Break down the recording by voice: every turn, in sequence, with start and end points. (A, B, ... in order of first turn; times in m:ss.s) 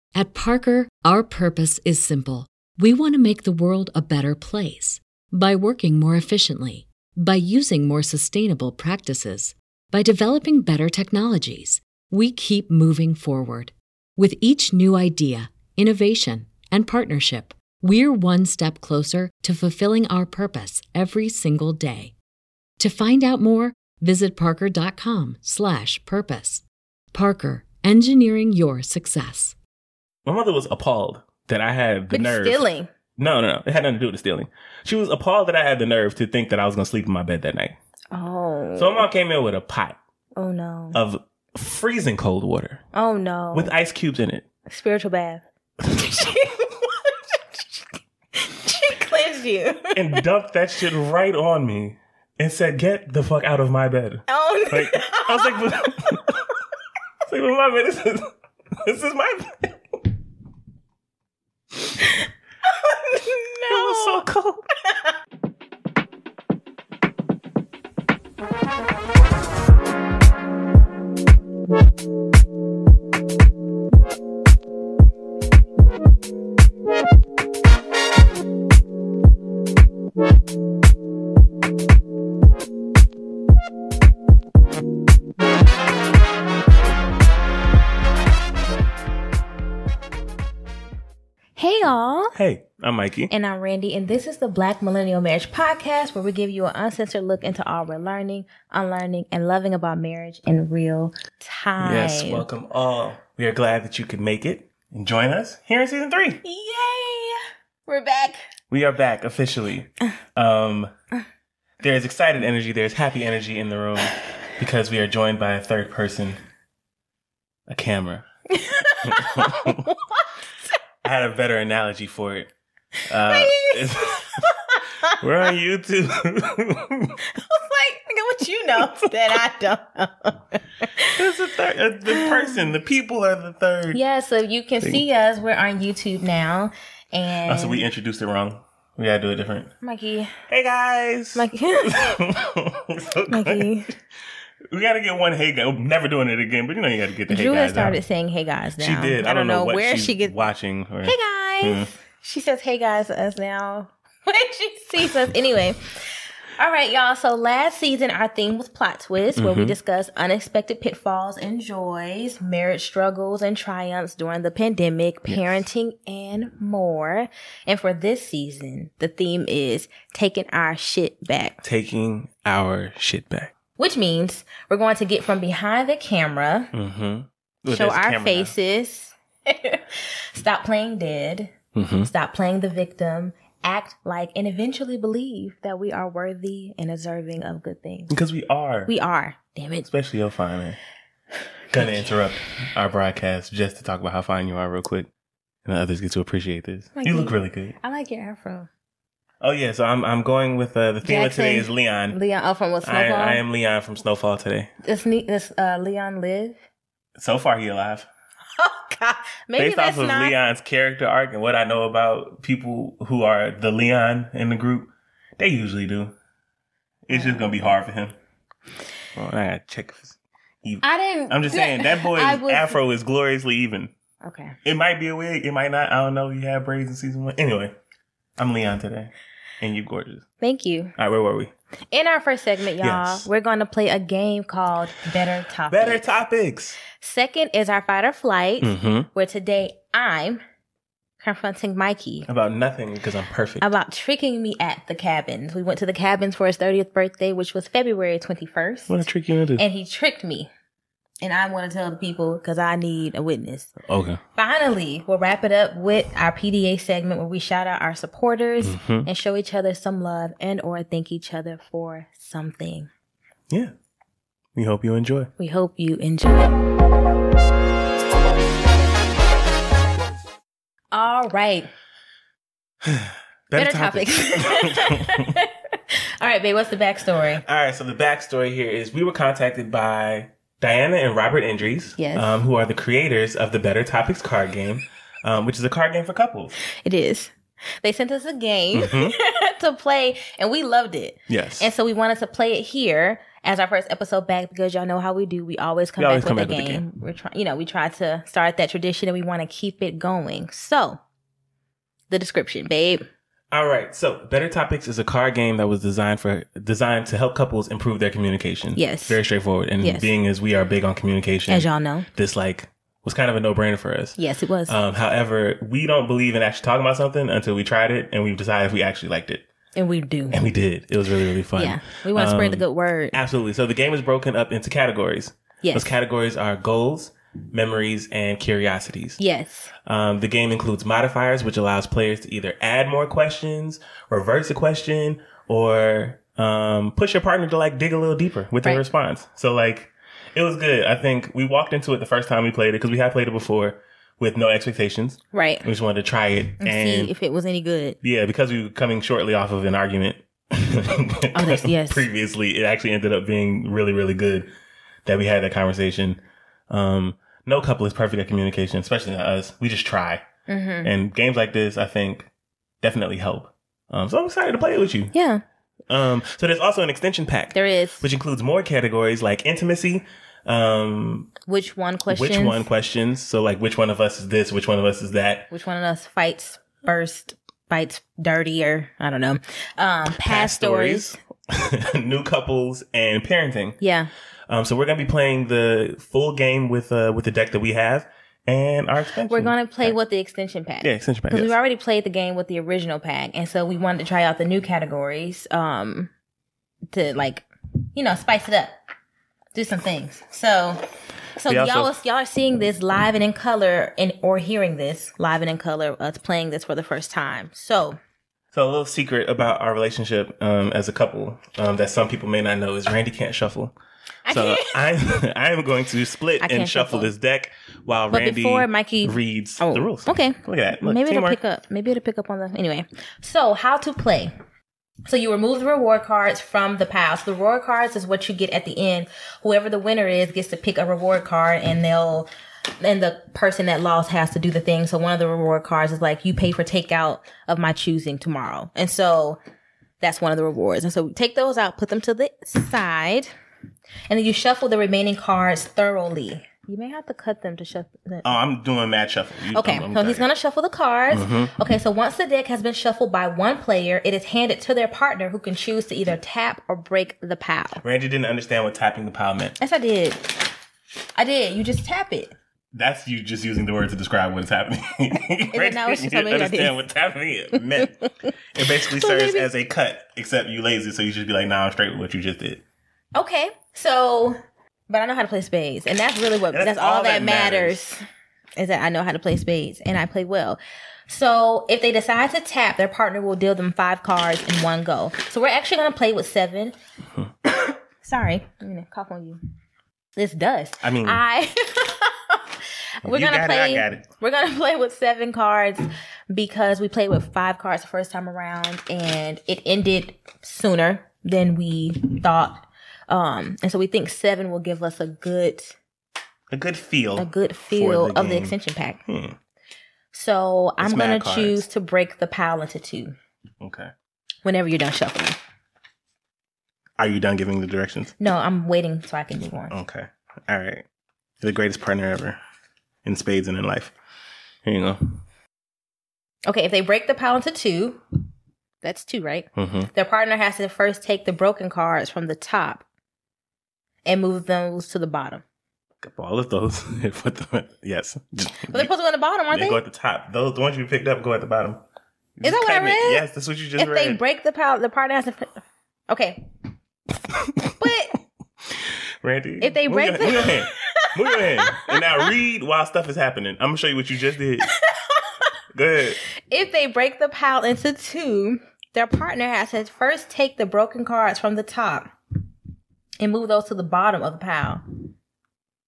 0:00.1-0:22.1 A
0:22.8-0:29.6 A
0:30.2-0:32.6 B
0:32.1-0:32.9 C
0:33.2-0:37.8 B
0:38.1-0:39.1 C
0:38.8-0:40.0 B
0:40.4-0:41.0 C
0:40.9-0:42.8 B
0:42.9-0:43.7 C
0:43.5-0:44.4 B
0:44.7-0:47.1 C
0:48.3-0:50.2 C
0:49.9-0:56.4 B
0:54.3-0:56.2 C
0:57.2-1:00.1 B
1:02.6-1:04.2 C
1:03.7-1:04.6 B
1:31.6-1:32.4 C
1:32.3-1:33.3 B
1:33.3-1:42.4 C
1:41.8-1:46.4 B
1:46.4-1:48.4 C
1:48.7-1:50.9 B
1:51.8-1:56.4 B
1:57.7-1:58.2 B
1:58.5-2:00.2 C
1:59.0-1:59.9 B
2:01.0-2:02.5 B
2:03.1-2:04.5 B
2:03.2-2:05.2 C
2:05.1-2:07.2 B
2:07.2-2:11.2 C
2:11.1-2:14.0 B
2:12.1-2:12.6 C
2:13.9-2:17.8 C
2:17.4-2:19.7 B
2:19.8-2:20.3 C
2:20.5-2:23.7 B
2:21.3-2:22.2 C
2:23.3-2:23.9 C
2:24.7-2:28.0 B
2:27.3-2:30.5 C
2:28.8-2:31.9 B
2:31.0-2:36.0 C
2:36.6-2:51.6 C
2:39.4-2:39.8 B
2:51.6-2:53.5 B
2:53.8-2:56.7 C
2:56.7-2:58.5 B
2:57.7-3:08.1 C
3:01.7-3:02.1 B
3:08.1-3:08.9 B
3:08.9-3:09.9 C
3:09.8-3:10.8 B
3:11.7-3:15.1 B
3:11.7-3:12.1 C
3:15.6-3:17.8 B
3:17.0-3:18.7 C
3:19.4-3:22.2 B
3:21.0-3:23.4 C
3:22.8-3:24.7 B
3:24.8-3:26.6 C
3:27.2-3:28.1 B
3:28.6-3:30.4 C
3:29.6-3:36.1 B
3:37.0-3:38.1 B
3:37.1-3:37.7 C
3:39.1-3:43.9 B
3:40.8-3:42.8 C
3:44.2-3:44.6 C
3:44.6-3:47.7 B
3:48.4-3:50.2 B
3:50.4-3:50.9 C
3:51.0-3:51.5 B
3:51.9-3:56.0 C
3:52.8-3:53.3 B
3:55.7-3:56.8 B
3:56.9-4:00.4 C
3:58.6-3:59.1 B
4:01.2-4:02.3 C
4:02.3-4:03.7 B
4:03.6-4:09.0 C
4:08.9-4:09.6 B
4:09.6-4:10.5 C
4:11.2-4:13.7 C
4:13.9-4:14.2 B
4:14.4-4:22.9 C
4:18.6-4:19.1 B
4:24.5-4:25.3 B
4:25.4-4:26.5 C
4:30.9-4:31.7 C
4:32.8-4:35.4 B
4:33.6-4:37.4 C
4:37.4-4:46.5 B
4:42.0-4:42.4 C
4:46.6-5:01.0 C
4:48.7-4:49.2 B
4:51.3-4:51.7 B
4:56.0-4:56.8 B
5:02.1-5:03.0 C
5:03.5-5:19.4 B
5:08.7-5:09.2 C
5:09.8-5:10.1 C
5:11.5-5:12.1 C
5:14.2-5:14.8 C
5:19.7-5:20.4 C
5:20.3-5:29.2 B
5:21.6-5:23.2 C
5:25.6-5:25.9 C
5:29.2-5:29.7 C
5:29.8-5:47.1 B
5:45.3-5:45.6 C
5:46.6-5:48.0 C
5:48.0-5:54.5 B
5:51.3-5:52.1 C
5:55.0-6:00.2 B
6:00.5-6:00.9 C
6:00.8-6:02.3 B
6:02.8-6:05.1 B
6:05.1-6:05.4 C
6:05.9-6:11.3 B
6:07.5-6:08.0 C
6:11.5-6:12.7 C
6:12.1-6:15.5 B
6:15.5-6:21.2 C
6:20.1-6:23.8 B
6:23.8-6:24.1 C
6:24.5-6:29.9 B
6:29.3-6:36.1 C
6:30.8-6:31.5 B
6:36.9-6:38.8 C
6:39.5-6:40.8 C
6:41.4-6:48.0 C
6:41.5-6:41.9 B
6:48.5-6:53.7 B
6:54.2-6:54.8 C
6:54.3-7:01.4 B
6:56.4-6:57.1 C
6:58.1-7:04.3 C
7:05.1-7:12.3 C
7:12.8-7:19.4 C
7:20.0-7:23.3 C
7:24.1-7:28.3 C
7:28.2-7:30.2 B
7:29.5-7:37.8 C
7:31.1-7:31.5 B
7:37.8-7:39.6 B
7:39.6-7:40.5 C
7:41.2-7:42.3 C
7:42.7-7:48.0 B
7:45.5-7:46.7 C
7:48.5-7:52.6 B
7:48.9-7:49.5 C
7:53.1-7:58.0 C
7:56.5-7:57.8 B
7:58.6-8:06.7 C
8:07.5-8:09.4 C
8:10.2-8:25.8 C
8:10.8-8:11.2 B
8:13.0-8:14.0 B
8:26.5-8:28.5 B
8:27.2-8:29.0 C
8:29.1-8:29.4 B
8:30.1-8:33.2 C
8:30.8-8:31.7 B
8:33.6-8:33.9 B
8:34.4-8:35.4 C
8:37.0-8:38.1 B
8:38.2-8:39.7 C
8:39.7-8:40.8 B
8:41.4-8:42.4 B
8:43.0-8:43.9 B
8:44.6-8:45.2 B
8:46.5-8:48.0 C
8:48.8-8:52.8 C
8:49.6-8:49.9 B
8:54.0-8:55.4 C
8:56.0-8:58.9 B
8:58.7-8:59.8 C
8:59.5-9:01.8 B
9:02.4-9:04.2 B
9:02.4-9:03.2 C
9:03.8-9:06.4 C
9:07.8-9:08.1 C
9:08.7-9:14.7 B
9:09.6-9:12.2 C
9:15.1-9:15.4 C
9:15.7-9:16.2 B
9:16.5-9:22.1 C
9:23.2-9:24.8 C